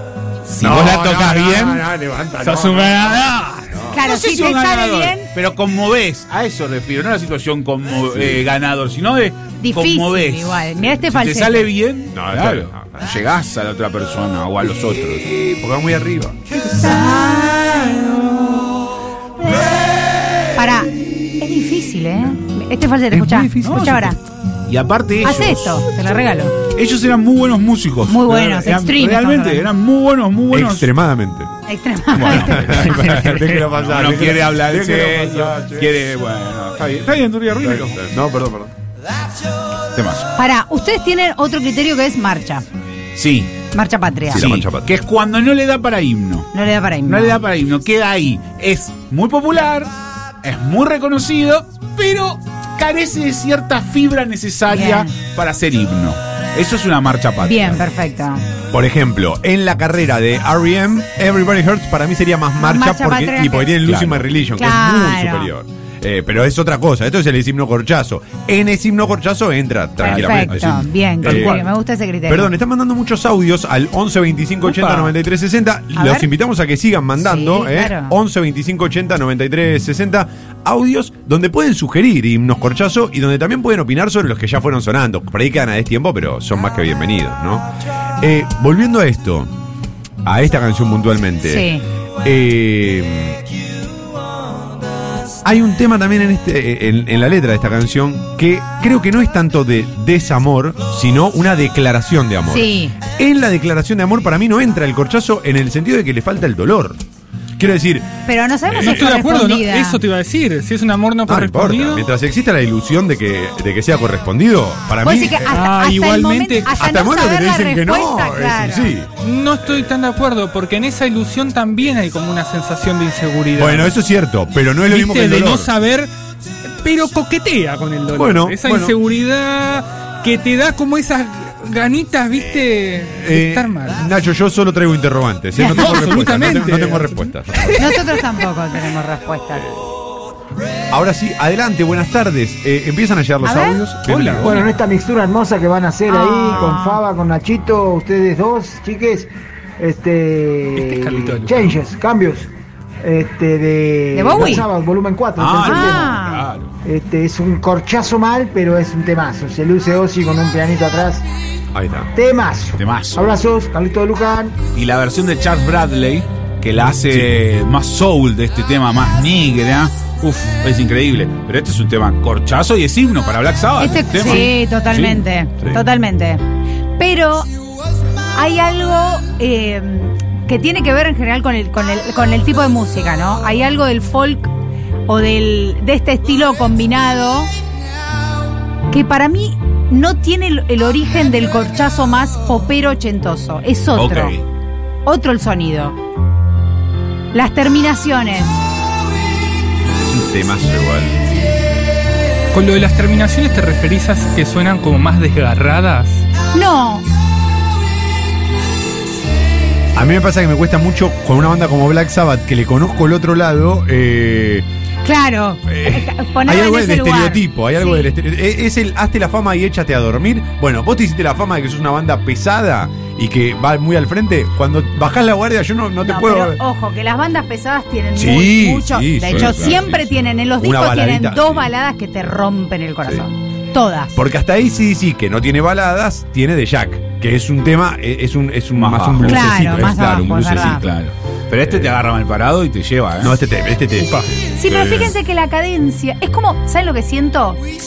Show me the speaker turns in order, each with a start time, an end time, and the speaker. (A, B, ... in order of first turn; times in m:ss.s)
0:00.5-0:01.8 A
0:00.5-0:03.9 B
0:02.4-0:03.8 C
0:03.9-0:05.3 D
0:03.9-0:15.2 A
0:08.1-0:08.5 B
0:09.6-0:11.7 D
0:12.1-0:13.1 B
0:14.8-0:18.7 B
0:16.7-0:17.9 D
0:19.4-0:20.6 B
0:20.6-0:24.2 D
0:23.1-0:24.2 B
0:23.6-0:23.9 A
0:24.7-0:25.8 A
0:25.2-0:26.6 D
0:26.7-0:30.9 A
0:28.1-0:29.7 D
0:30.5-0:31.5 B
0:31.6-0:32.9 D
0:32.1-0:38.0 A
0:32.2-0:36.0 B
0:32.9-0:33.6 C
0:37.6-0:38.7 B
0:39.9-0:40.3 A
0:40.4-0:42.6 D
0:43.1-0:43.5 A
0:43.7-0:44.4 D
0:44.3-0:44.9 B
0:44.4-0:46.5 A
0:46.5-0:47.4 D
0:47.0-0:49.9 A
0:50.4-0:57.8 A
0:54.7-0:55.1 D
0:57.4-0:58.4 D
0:58.7-1:11.7 B
1:02.6-1:03.8 D
1:03.8-1:04.2 A
1:04.6-1:05.5 D
1:10.0-1:12.5 D
1:10.0-1:11.6 A
1:12.3-1:29.5 B
1:14.6-1:15.1 C
1:15.9-1:16.3 D
1:17.2-1:18.1 D
1:30.2-1:31.7 B
1:31.4-1:31.8 D
1:32.2-1:33.4 B
1:35.4-1:47.0 B
1:42.5-1:42.9 D
1:47.6-1:49.1 B
1:48.3-1:50.0 D
1:48.8-1:52.0 C
1:51.3-1:55.6 B
1:55.0-1:58.9 D
1:55.5-1:56.8 C
1:56.8-1:59.1 B
1:59.2-2:04.0 C
1:59.6-1:59.9 B
2:03.6-2:05.7 B
2:04.9-2:06.1 C
2:06.8-2:14.0 C
2:08.1-2:09.0 B
2:13.1-2:18.2 B
2:15.6-2:15.9 D
2:15.6-2:17.3 C
2:17.8-2:19.6 D
2:19.6-2:19.9 B
2:20.9-2:24.6 B
2:23.4-2:23.8 D
2:24.0-2:24.6 C
2:24.4-2:32.5 E
2:26.1-2:27.0 D
2:30.7-2:31.8 C
2:33.0-2:36.2 E
2:34.1-2:34.7 D
2:35.4-2:36.7 A
2:35.6-2:36.5 D
2:36.8-2:41.2 E
2:41.7-2:42.1 B
2:42.1-2:44.6 E
2:42.8-2:43.2 A
2:44.7-2:55.2 A
2:47.1-2:47.4 B
2:53.8-2:56.4 D
2:57.0-2:57.5 D
2:58.3-3:04.5 D
3:05.1-3:07.5 D
3:08.9-3:14.4 D
3:13.9-3:14.4 A
3:15.0-3:16.0 D
3:17.3-3:18.6 D
3:20.0-3:21.4 B
3:22.5-3:26.2 C
3:26.5-3:27.0 D
3:29.9-3:34.6 B
3:35.0-3:38.1 D
3:35.6-3:46.6 B
3:46.0-3:54.2 D
3:48.1-3:51.7 B
3:49.2-3:49.8 A
3:54.1-4:00.8 B
3:58.7-4:03.4 A
3:59.2-4:00.8 D
4:01.6-4:02.0 B
4:03.2-4:05.1 B
4:04.0-4:04.3 C
4:04.5-4:07.6 D